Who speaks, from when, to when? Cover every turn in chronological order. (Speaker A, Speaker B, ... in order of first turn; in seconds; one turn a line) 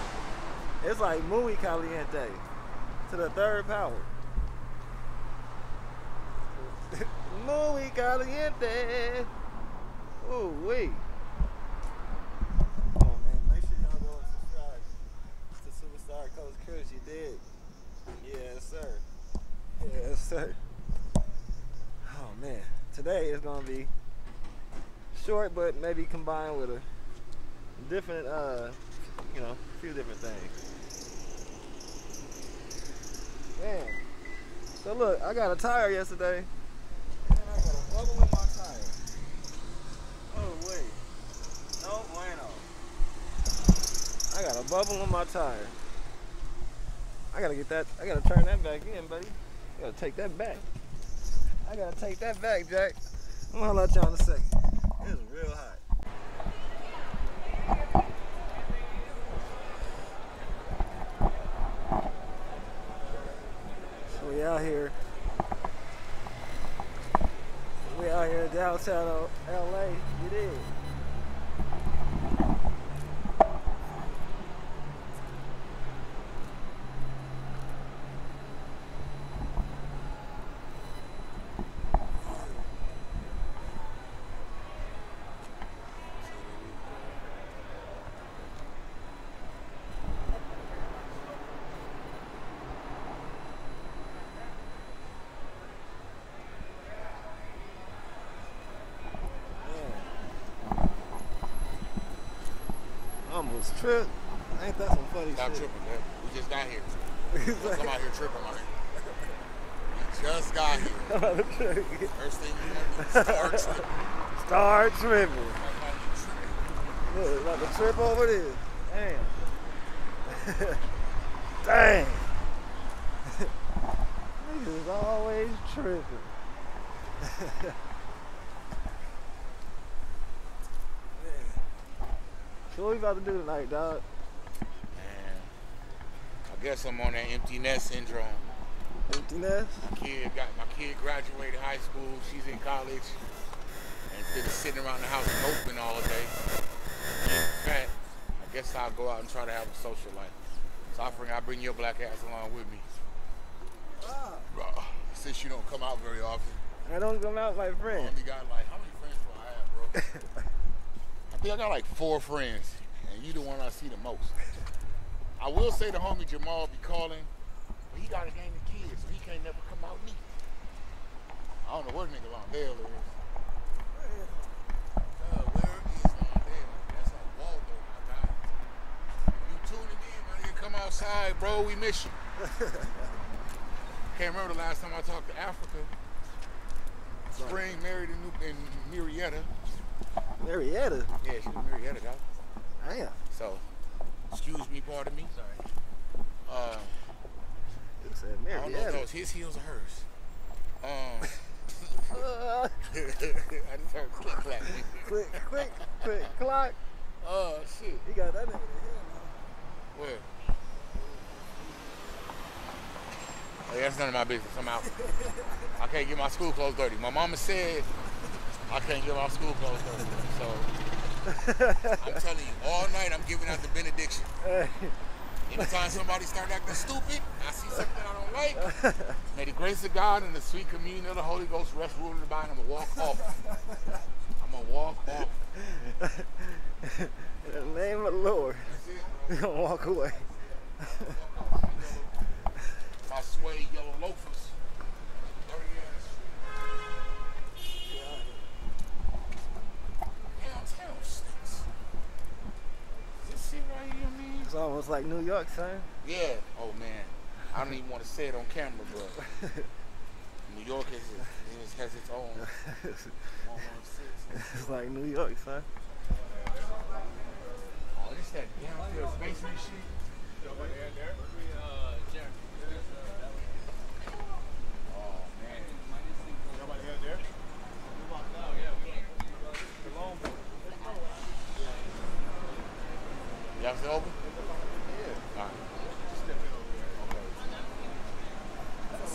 Speaker A: 0.8-2.4
Speaker A: 3.1-4.1
Speaker A: 6.5-9.3
Speaker A: 10.2-11.0
Speaker A: 12.9-15.0
Speaker A: 15.6-17.4
Speaker A: 18.2-19.0
Speaker A: 19.7-20.6
Speaker A: 22.0-23.9
Speaker A: 25.1-26.9
Speaker A: 27.8-30.6
Speaker A: 33.5-34.0
Speaker A: 34.8-36.5
Speaker A: 37.2-39.0
Speaker A: 40.3-41.0
Speaker A: 41.8-42.7
Speaker A: 44.3-45.8
Speaker A: 47.3-50.6
Speaker A: 51.6-55.8
Speaker A: 64.1-64.9
Speaker A: 67.8-70.7
Speaker B: 86.2-87.1
Speaker A: 99.6-100.1
Speaker A: 103.2-105.7
Speaker B: 105.3-108.7
Speaker A: 107.3-108.0
Speaker B: 109.9-111.2
Speaker A: 110.7-112.1
Speaker B: 112.1-113.9
Speaker A: 112.9-115.6
Speaker B: 115.5-116.8
Speaker A: 117.0-119.3
Speaker A: 120.3-120.8
Speaker A: 121.6-122.3
Speaker A: 124.4-126.3
Speaker A: 131.1-131.6
Speaker A: 132.7-134.0
Speaker B: 134.9-135.5
Speaker B: 136.5-138.5
Speaker A: 139.1-139.9
Speaker B: 139.8-143.2
Speaker B: 144.1-146.3
Speaker B: 147.2-150.3
Speaker B: 150.9-152.8
Speaker A: 150.9-151.2
Speaker A: 154.0-154.5
Speaker B: 154.5-156.6
Speaker A: 156.8-158.2
Speaker B: 157.8-160.0
Speaker B: 161.3-164.4
Speaker B: 165.4-167.3
Speaker B: 167.9-170.2
Speaker B: 171.6-173.2
Speaker A: 173.9-174.5
Speaker B: 175.2-178.4
Speaker B: 179.3-182.1
Speaker A: 182.4-182.9
Speaker B: 184.1-185.9
Speaker A: 187.3-187.7
Speaker B: 187.3-189.5
Speaker A: 190.4-191.1
Speaker B: 191.2-192.2
Speaker A: 192.8-193.2
Speaker B: 193.3-193.6
Speaker B: 194.3-195.4
Speaker B: 196.4-196.9
Speaker A: 198.0-199.1
Speaker B: 198.5-200.1
Speaker B: 200.8-202.2
Speaker A: 202.1-202.8
Speaker B: 202.9-205.1
Speaker A: 205.0-206.8
Speaker B: 207.2-208.1
Speaker A: 208.0-209.5
Speaker B: 209.9-210.3
Speaker A: 211.0-211.3
Speaker B: 213.7-215.0
Speaker B: 215.7-217.9
Speaker B: 218.7-220.7
Speaker A: 221.3-221.9
Speaker B: 221.9-224.3
Speaker A: 224.4-224.9
Speaker B: 225.4-228.7
Speaker A: 225.6-225.8
Speaker A: 228.6-229.2
Speaker B: 229.3-233.4
Speaker B: 234.4-235.4
Speaker A: 235.7-238.8
Speaker B: 238.6-239.5
Speaker A: 239.3-240.2
Speaker B: 240.8-242.2
Speaker B: 243.0-244.6
Speaker B: 245.1-246.5
Speaker A: 247.8-248.5
Speaker B: 250.3-251.7
Speaker B: 253.2-254.5
Speaker A: 254.4-255.9
Speaker B: 256.0-259.2
Speaker B: 260.4-262.5
Speaker A: 262.5-263.1
Speaker B: 263.4-264.5
Speaker A: 264.3-265.7
Speaker B: 267.9-269.9
Speaker B: 274.9-275.9
Speaker B: 283.6-284.2
Speaker B: 285.3-285.6
Speaker B: 286.9-287.5